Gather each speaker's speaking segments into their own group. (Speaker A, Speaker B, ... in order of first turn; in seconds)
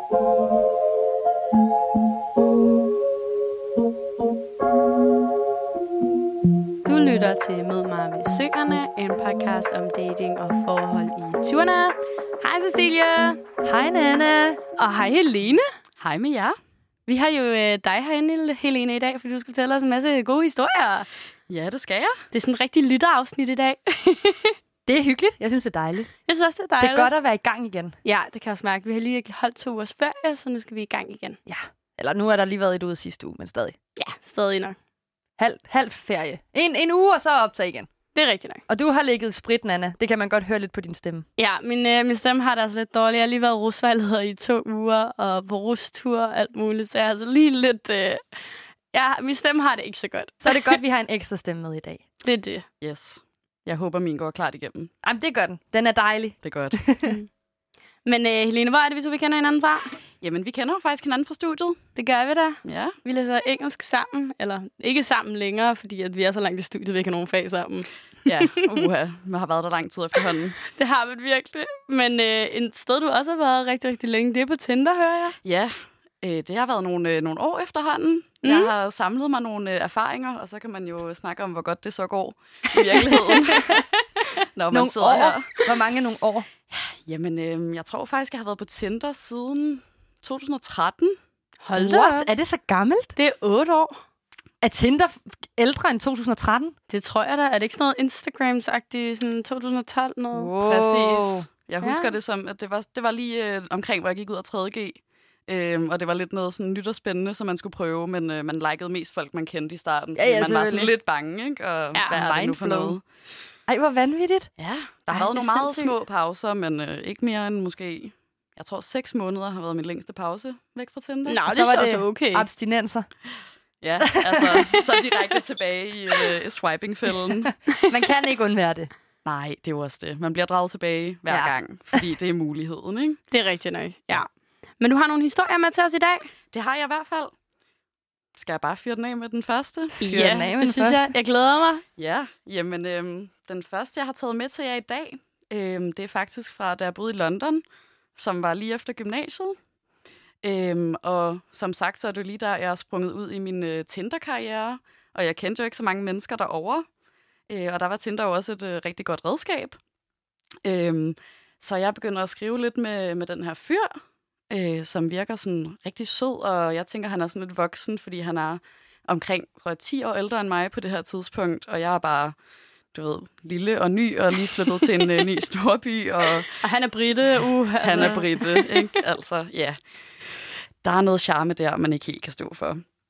Speaker A: 6.8-13.4, 14.8-15.6, 17.1-21.1, 22.3-24.6, 26.3-27.1, 28.0-31.4, 34.0-34.8, 38.1-38.6, 41.4-48.3, 48.9-50.8, 52.2-52.7, 58.0-59.9, 62.0-67.9, 68.4-68.7, 70.7-75.3, 78.4-78.7, 91.6-92.3, 93.2-94.0, 96.9-100.5, 101.8-102.1, 115.1-115.9, 121.2-122.5, 124.8-125.2, 133.3-134.3, 134.8-136.3, 140.0-141.8, 176.6-178.9
Speaker B: 13.6-14.6, 24.9-26.1, 26.8-27.9, 31.5-33.8, 35.4-37.9, 38.7-41.2, 50.4-52.0, 55.0-57.2, 83.5-83.8, 84.7-86.5, 91.8-93.1, 94.6-96.7, 100.5-101.5, 110.2-110.9, 112.0-113.0, 113.7-114.5, 121.5-123.1, 124.0-124.6, 127.9-128.9, 131.3-132.0, 140.0-141.1
Speaker C: 16.0-16.5, 21.5-22.2, 52.8-54.9, 56.4-56.8, 60.2-61.8, 62.6-62.9, 68.2-70.6, 75.4-83.8, 84.5-85.5, 86.7-91.2, 100.3-113.0, 114.6-121.5, 123.8-127.5, 129.2-133.2, 136.5-137.3, 138.3-140.0, 142.0-147.6, 148.2-149.6, 150.4-156.8, 157.5-159.8, 160.6-164.0, 164.5-172.3, 172.9-176.5, 177.8-182.8